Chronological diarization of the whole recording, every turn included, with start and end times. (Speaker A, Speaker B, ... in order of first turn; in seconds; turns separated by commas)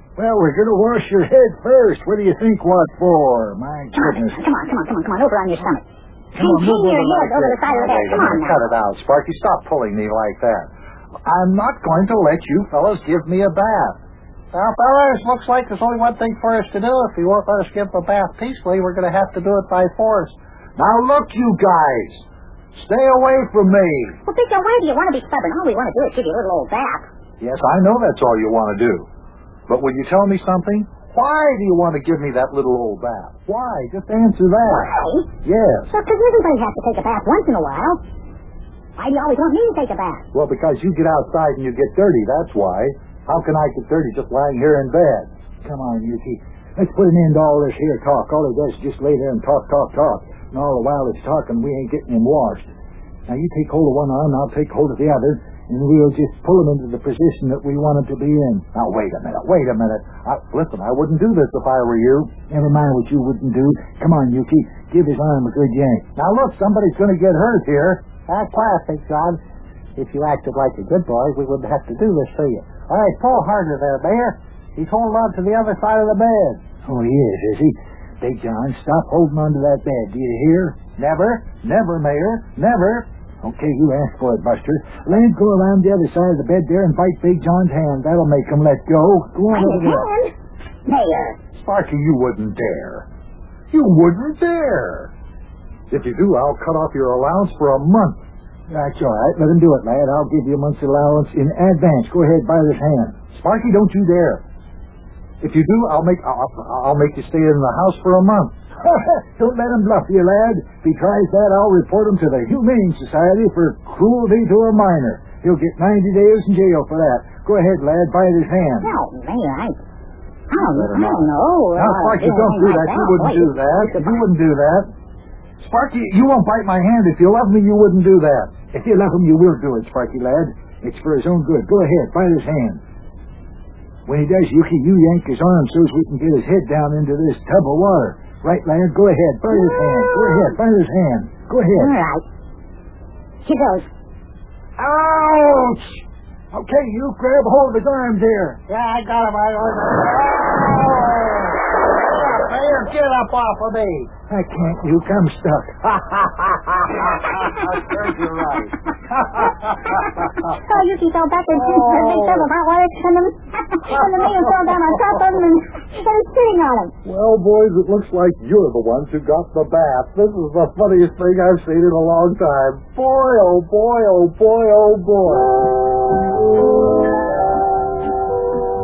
Speaker A: 0.2-4.4, Speaker B: 3.9-5.8, Speaker A: 6.3-10.7, Speaker B: 6.4-8.6, Speaker A: 11.2-14.0, Speaker C: 14.5-20.4, Speaker A: 20.8-24.2, Speaker B: 24.3-27.1, Speaker A: 27.4-29.1, Speaker A: 29.7-34.9, Speaker B: 34.7-35.3, Speaker A: 35.4-35.9, Speaker B: 35.9-38.0, Speaker B: 39.0-40.2, Speaker A: 40.3-52.7, Speaker A: 53.3-68.1, Speaker C: 68.3-69.4, Speaker C: 70.0-76.6, Speaker A: 76.9-90.0, Speaker B: 89.5-90.3, Speaker B: 90.9-91.4, Speaker A: 91.5-93.1, Speaker A: 93.7-95.1, Speaker A: 95.9-104.4, Speaker A: 105.4-118.9, Speaker B: 118.8-119.8, Speaker B: 120.5-124.2, Speaker A: 120.6-124.9, Speaker A: 125.6-132.8, Speaker A: 134.1-141.9, Speaker B: 139.7-140.4, Speaker B: 141.7-142.2, Speaker B: 143.4-143.9, Speaker A: 144.8-146.0, Speaker A: 146.5-148.6, Speaker C: 148.7-154.1, Speaker A: 154.3-159.5, Speaker B: 160.3-166.9, Speaker A: 161.8-162.4, Speaker A: 164.2-164.7, Speaker A: 167.1-175.5